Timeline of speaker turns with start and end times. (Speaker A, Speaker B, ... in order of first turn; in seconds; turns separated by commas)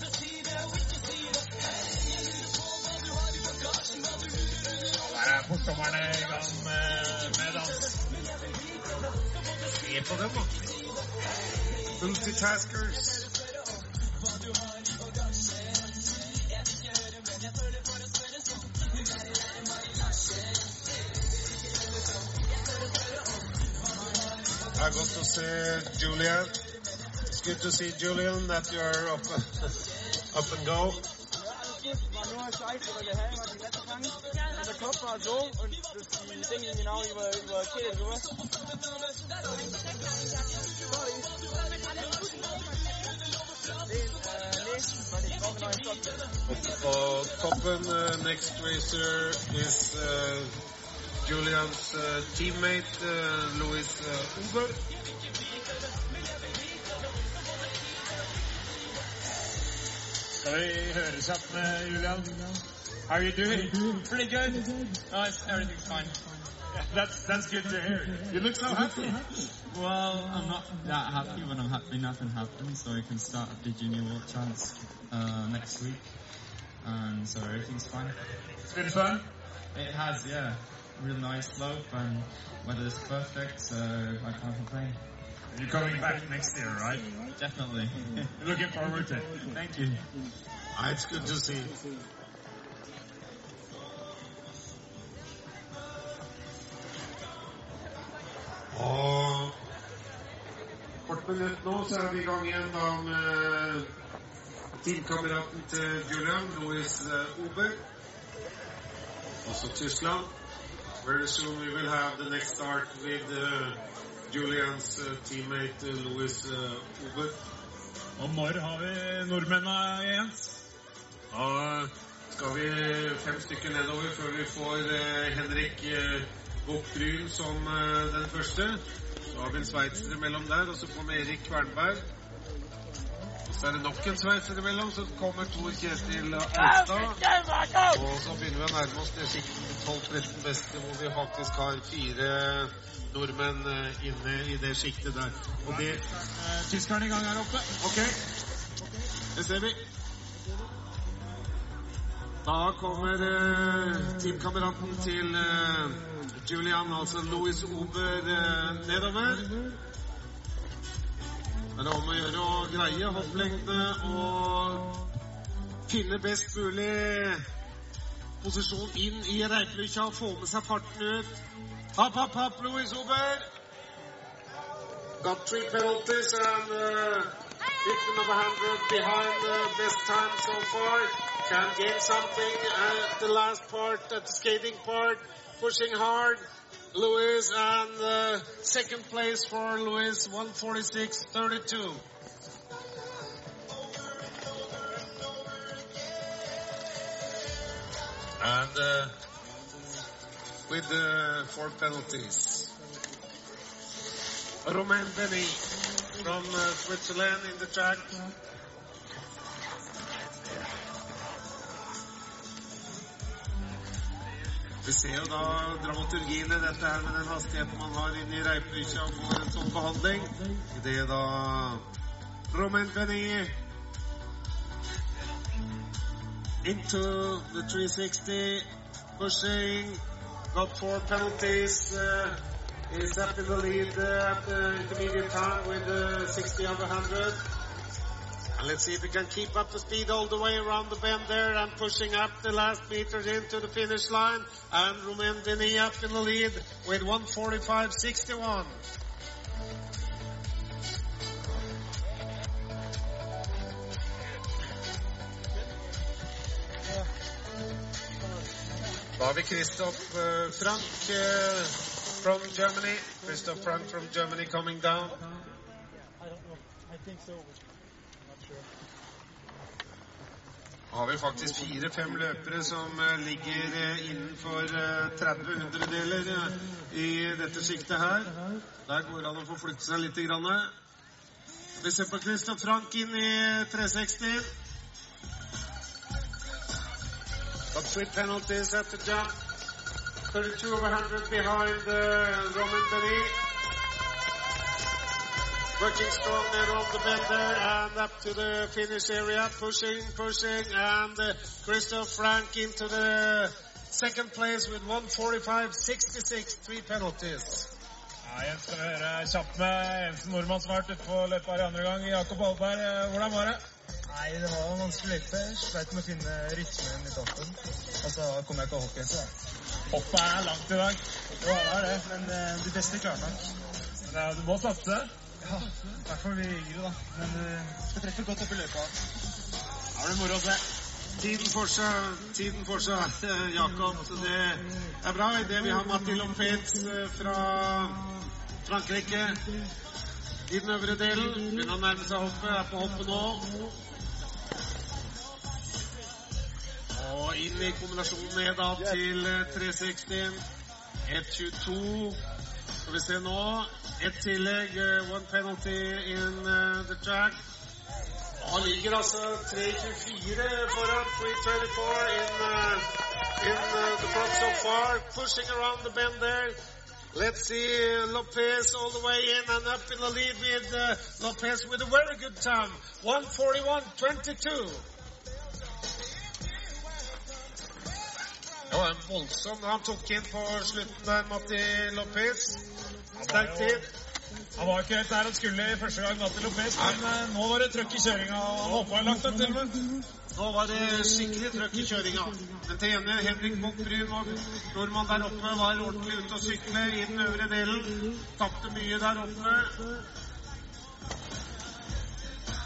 Speaker A: 5.0-8.0, Speaker B: 9.6-10.6, Speaker B: 12.0-13.3, Speaker B: 24.7-26.5, Speaker B: 27.3-29.6, Speaker B: 30.3-31.0, Speaker C: 31.4-38.4, Speaker C: 40.8-41.4, Speaker C: 43.9-46.2, Speaker B: 46.5-50.5, Speaker B: 51.2-54.8, Speaker A: 60.4-62.5, Speaker A: 63.1-63.9, Speaker D: 65.1-66.1, Speaker A: 66.8-69.3, Speaker E: 69.8-78.2, Speaker D: 69.8-70.3, Speaker A: 78.7-79.2, Speaker E: 79.7-85.2, Speaker A: 85.5-87.0, Speaker E: 87.2-88.2, Speaker A: 88.4-90.0, Speaker B: 90.7-91.7, Speaker B: 98.7-99.5, Speaker B: 101.1-103.9, Speaker B: 104.8-107.8, Speaker B: 109.5-110.3, Speaker B: 111.0-113.8, Speaker B: 114.3-117.4, Speaker A: 118.2-120.6, Speaker B: 121.3-132.1, Speaker B: 133.5-137.2, Speaker B: 137.8-146.0, Speaker A: 145.7-147.8, Speaker B: 147.8-148.2, Speaker B: 149.3-149.8, Speaker B: 152.4-159.5, Speaker B: 161.8-164.9, Speaker B: 165.9-167.4, Speaker B: 168.4-171.4, Speaker B: 171.9-173.5, Speaker B: 175.2-177.3, Speaker B: 177.8-192.0, Speaker B: 198.4-199.1, Speaker B: 200.7-202.7, Speaker B: 204.6-205.6, Speaker B: 206.2-208.3, Speaker B: 214.8-221.8, Speaker B: 222.5-223.6, Speaker B: 226.6-237.4, Speaker B: 238.6-248.8, Speaker B: 259.2-265.2, Speaker B: 270.9-280.7, Speaker B: 281.8-284.5, Speaker B: 287.7-289.3, Speaker B: 290.3-293.4, Speaker B: 295.8-307.7, Speaker A: 308.2-313.6, Speaker D: 314.1-319.3, Speaker A: 319.9-322.1, Speaker D: 321.4-323.4, Speaker A: 324.1-325.1, Speaker D: 325.4-328.9, Speaker A: 329.9-330.6, Speaker B: 331.2-338.1, Speaker B: 338.6-339.4, Speaker B: 340.5-343.5, Speaker B: 346.9-350.4, Speaker B: 351.1-352.2, Speaker B: 352.8-357.4, Speaker B: 358.4-362.9, Speaker B: 363.4-366.6, Speaker B: 367.1-374.9, Speaker B: 378.7-382.6, Speaker A: 383.2-383.8, Speaker B: 383.3-383.9, Speaker A: 384.6-389.7, Speaker B: 386.7-387.0, Speaker B: 390.4-399.7